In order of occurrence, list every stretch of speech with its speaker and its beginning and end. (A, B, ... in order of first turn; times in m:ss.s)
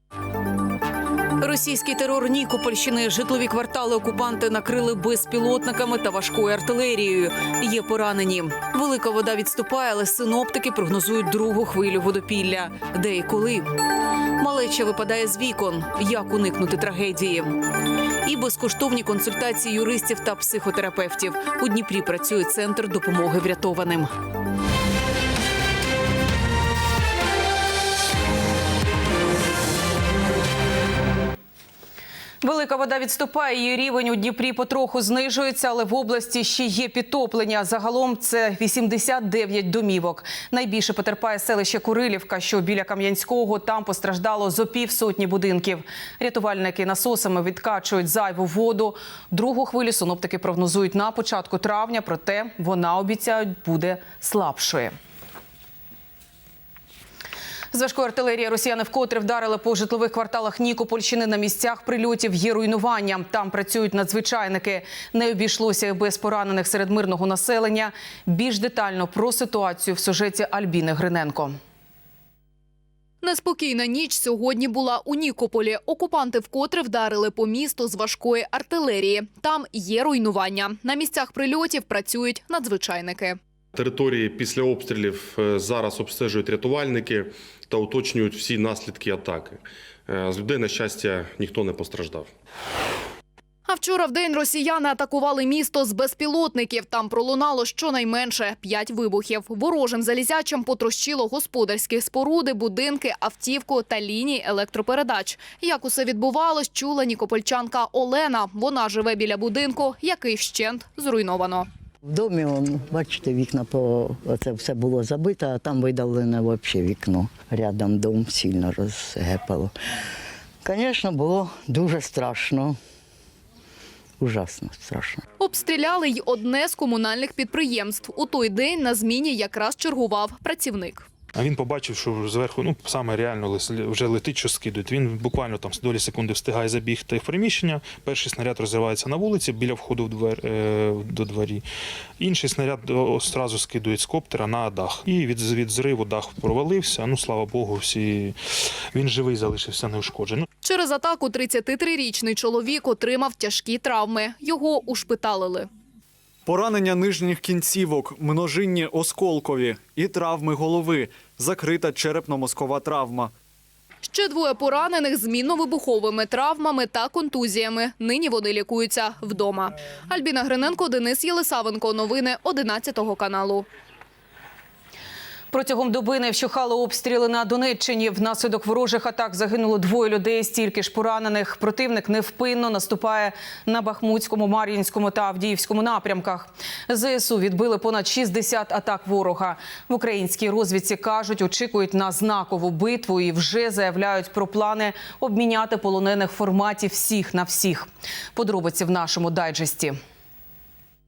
0:01.4-0:13.8 A
0:14.4-0:17.6 A
0:18.2-0:24.1 A
0:32.4-0:54.9 A
0:57.7-1:11.5 A
1:13.2-1:23.3 B
1:23.7-1:32.3 C
1:33.7-1:51.6 B
1:52.1-1:59.7 D
1:52.4-1:52.7 E
1:53.3-1:53.8 E
1:54.5-1:57.2 E
1:57.8-1:59.6 E
2:00.6-2:02.7 D
2:00.9-2:02.6 E
2:04.2-2:05.1 E
2:04.3-2:05.1 D
2:05.5-2:11.0 B
2:11.4-2:21.6 F
2:22.2-2:28.3 F
2:28.9-2:30.5 F
2:30.6-2:35.7 B
2:39.0-2:39.4 E
2:41.7-2:43.1 E
2:44.1-2:53.6 B
2:55.5-3:19.9 A